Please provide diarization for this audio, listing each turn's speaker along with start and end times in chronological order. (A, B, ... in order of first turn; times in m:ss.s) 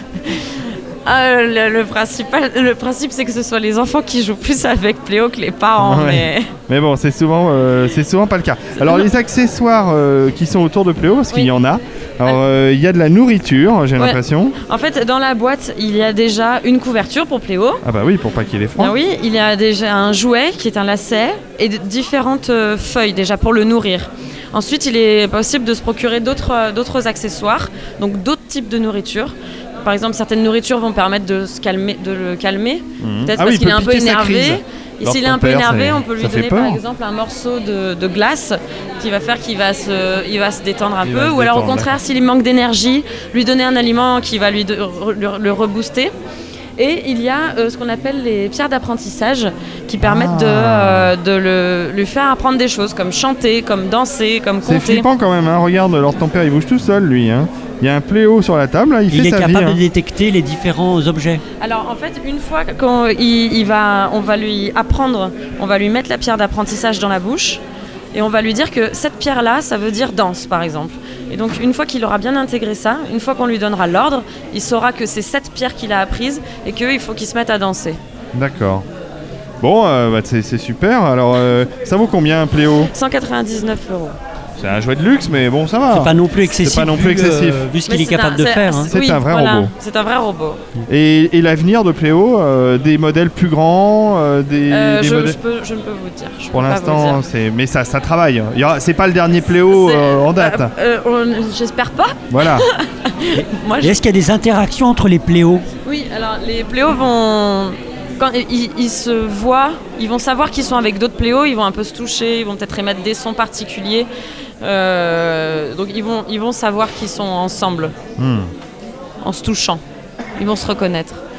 0:00.2-0:06.5 A
0:05.8-0:14.6 B
0:08.8-0:09.0 A
0:14.0-0:17.8 A
0:17.8-0:18.9 B
0:18.8-0:46.1 A
0:33.0-0:36.8 B
0:41.0-0:42.0 B
0:46.8-0:55.1 A
0:50.0-0:51.1 B
0:54.6-0:59.8 B
0:59.1-1:01.4 C
1:01.6-1:07.6 A
1:08.1-1:18.0 A
1:18.3-1:18.8 B
1:19.6-1:22.9 B
1:22.9-1:24.2 A
1:24.6-1:27.7 B
1:25.9-1:28.9 C
1:27.8-1:30.6 A
1:28.9-1:29.7 B
1:30.9-1:35.4 B
1:34.7-1:37.2 A
1:36.5-1:40.7 B
1:39.7-1:44.0 A
1:42.3-1:42.7 B
1:43.3-1:45.6 C
1:45.8-1:54.1 A
1:54.6-1:57.9 A
1:58.2-1:58.5 B
1:59.2-1:59.8 A
2:00.4-2:01.2 A